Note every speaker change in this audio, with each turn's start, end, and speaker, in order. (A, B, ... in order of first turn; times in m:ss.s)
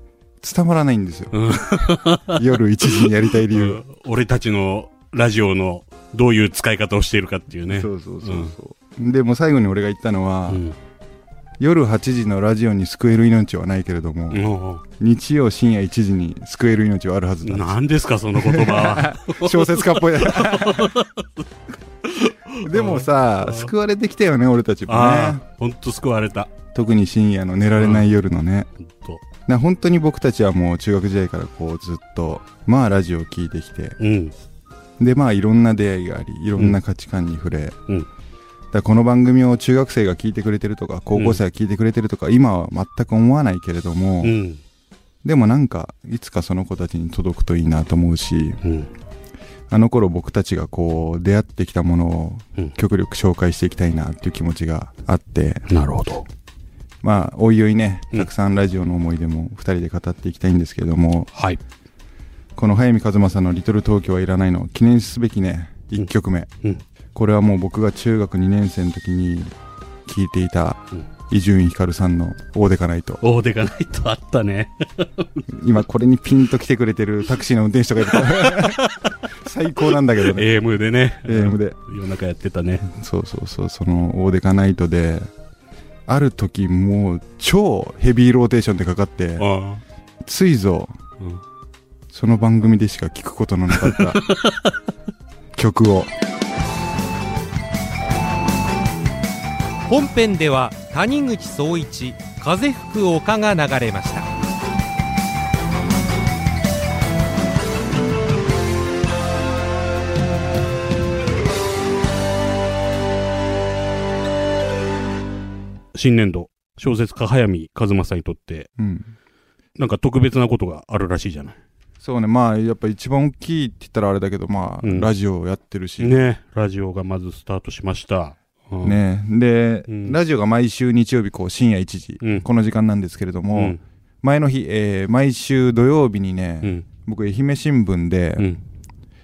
0:00.4-0:01.4 A
0:01.3-0:08.5 B
0:02.3-0:03.8 A
0:07.7-0:10.6 A
0:10.5-0:10.8 B
0:11.6-0:14.4 A
0:14.3-0:14.8 B
0:15.0-0:17.8 A
0:17.4-0:21.4 B
0:18.4-0:21.0 A
0:22.0-0:23.7 B
0:22.6-0:25.4 A
0:24.9-0:26.5 B
0:26.7-0:28.7 A
0:27.8-0:28.1 B
0:28.8-0:29.2 B
0:29.5-0:34.0 A
0:34.0-0:34.4 B
0:35.0-0:37.8 A
0:38.7-0:44.4 A
0:41.1-0:41.4 B
0:44.2-0:44.6 B
0:45.2-0:48.6 A
0:48.6-0:48.9 B
0:49.7-0:55.7 A
0:55.7-0:56.3 B
0:57.0-1:01.3 A
1:01.3-1:01.6 B
1:02.6-1:06.5 A
1:07.1-1:09.5 A
1:10.1-1:13.2 A
1:13.2-1:15.5 B
1:15.5-1:18.8 A
1:18.1-1:19.1 B
1:19.4-1:20.5 A
1:20.2-1:22.9 B
1:21.2-1:21.8 A
1:22.9-1:25.3 A
1:26.1-1:29.5 A
1:29.4-1:29.8 B
1:30.2-1:30.9 A
1:32.1-1:34.2 A
1:33.8-1:34.7 B
1:35.6-1:36.1 A
1:39.9-1:44.3 C
1:55.9-1:58.7 B
1:58.8-1:59.1 A
1:59.8-2:01.6 B
2:02.0-2:06.2 A
2:04.8-2:05.1 B
2:06.0-2:09.0 B
2:08.8-2:18.5 A
2:09.9-2:10.2 B
2:12.2-2:12.5 B
2:13.5-2:13.8 B